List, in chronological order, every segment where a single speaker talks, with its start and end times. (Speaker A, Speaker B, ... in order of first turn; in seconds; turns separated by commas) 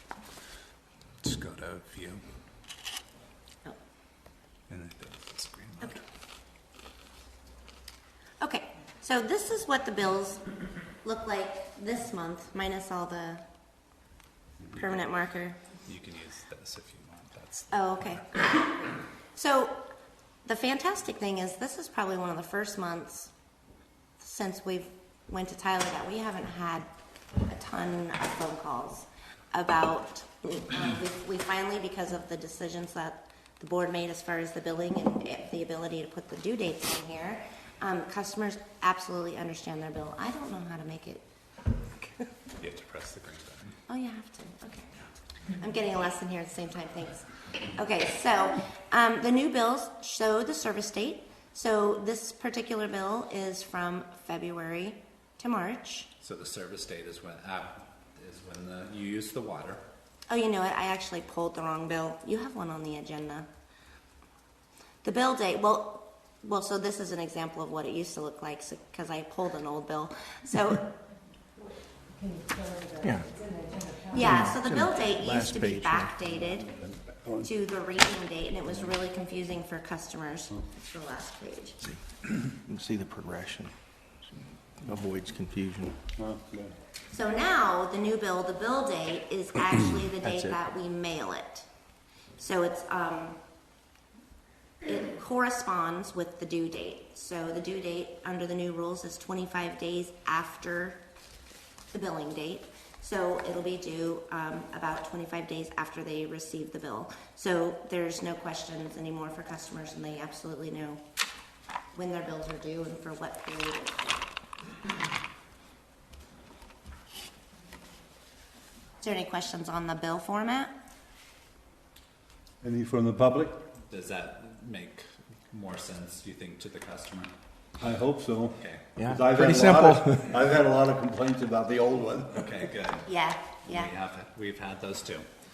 Speaker A: 1.2-2.2, Speaker A: 4.7-6.0, Speaker B: 8.4-10.4, Speaker B: 11.0-13.4, Speaker B: 14.7-15.6, Speaker A: 15.8-18.2, Speaker B: 17.7-19.8, Speaker B: 20.4-23.3, Speaker B: 24.2-26.9, Speaker B: 27.5-41.2, Speaker A: 42.6-43.8, Speaker B: 43.9-44.9, Speaker B: 45.6-56.1, Speaker A: 56.2-59.8, Speaker B: 60.3-63.5, Speaker B: 65.0-70.9, Speaker C: 73.0-73.4, Speaker B: 74.1-76.7, Speaker C: 74.2-76.2, Speaker D: 76.7-77.5, Speaker B: 77.4-81.8, Speaker C: 81.8-83.7, Speaker C: 84.8-86.0, Speaker D: 86.2-86.7, Speaker B: 87.1-91.7, Speaker C: 90.2-90.6, Speaker B: 92.4-93.4, Speaker B: 94.8-101.0, Speaker B: 101.9-111.0, Speaker B: 111.9-114.2, Speaker B: 119.0-120.7, Speaker D: 122.6-123.6, Speaker A: 123.9-127.3, Speaker D: 127.8-132.5, Speaker A: 128.6-128.9, Speaker C: 128.9-130.3, Speaker A: 132.3-133.1, Speaker B: 133.1-133.9, Speaker A: 133.6-135.2